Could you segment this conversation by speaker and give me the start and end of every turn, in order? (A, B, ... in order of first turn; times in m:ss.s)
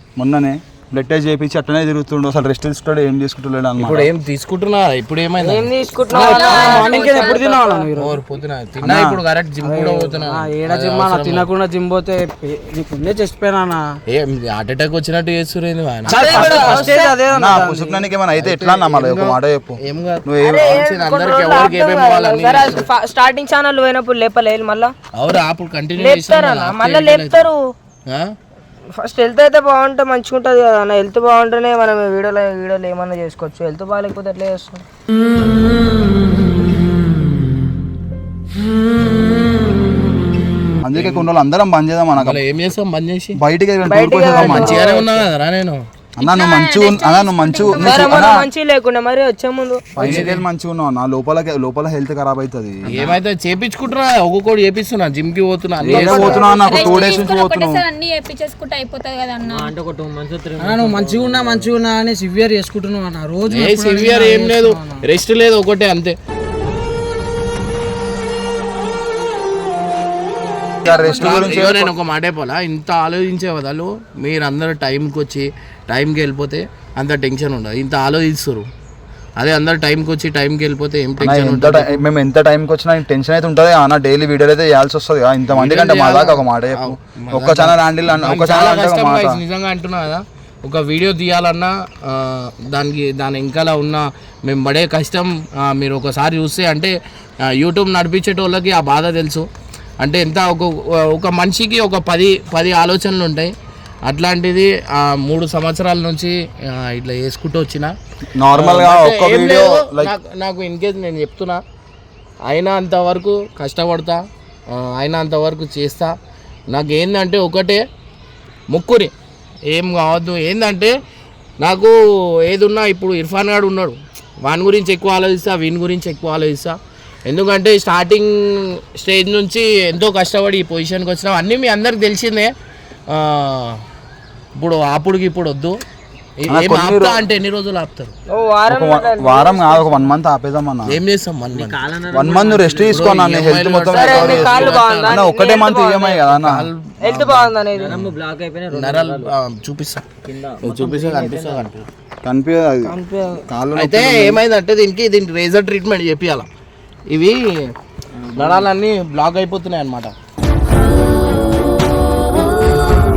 0:00.2-0:04.1 A
0:03.8-0:06.9 B
0:05.4-0:07.8 C
0:06.1-0:08.2 D
0:06.2-0:07.1 E
0:08.0-0:11.5 B
0:08.8-0:09.2 A
0:09.6-0:13.8 D
0:14.1-0:16.8 B
0:16.1-0:18.1 D
0:16.1-0:17.2 C
0:16.4-0:20.8 A
0:18.4-0:22.9 B
0:20.4-0:24.9 C
0:25.1-0:27.5 B
0:26.0-0:27.7 C
0:29.0-0:34.8 C
0:40.8-0:42.4 A
0:41.0-0:41.2 B
0:42.2-0:43.4 B
0:43.4-0:44.9 A
0:43.9-0:45.2 C
0:44.4-0:45.8 B
0:46.2-0:48.5 A
0:46.2-0:48.3 E
0:47.7-0:50.2 C
0:49.9-0:53.2 A
0:50.0-0:50.4 B
0:52.9-0:57.2 B
0:55.8-0:57.8 A
0:55.8-0:59.8 E
0:59.5-1:01.7 F
1:00.6-1:05.0 D
1:03.5-1:06.2 B
1:10.8-1:11.9 A
1:10.8-1:18.6 B
1:11.0-1:11.4 D
1:19.4-1:22.0 B
1:21.2-1:29.4 A
1:25.5-1:39.4 B
1:40.0-1:43.5 B
1:44.0-1:47.9 B
1:48.4-1:50.1 A
1:48.5-1:51.6 B
1:52.4-1:56.1 B
1:56.7-1:57.8 B
1:58.7-1:59.1 B
1:59.7-2:00.9 B
2:01.6-2:06.7 B
2:07.3-2:12.5 B
2:13.1-2:13.8 B
2:14.6-2:15.8 B
2:16.4-2:18.1 B
2:16.5-2:17.2 A
2:18.3-2:20.1 C
2:18.7-2:21.0 A
2:20.9-2:21.9 B
2:21.5-2:23.1 F
2:22.1-2:26.7 A
2:22.8-2:28.1 B
2:23.9-2:25.8 C
2:27.0-2:28.0 C
2:27.7-2:29.3 F
2:28.7-2:30.1 B
2:30.2-2:31.6 F
2:30.6-2:31.9 B
2:32.2-2:34.4 A
2:32.8-2:33.4 C
2:33.7-2:36.5 B
2:37.1-2:37.7 B
2:38.3-2:40.1 B
2:38.3-2:38.6 F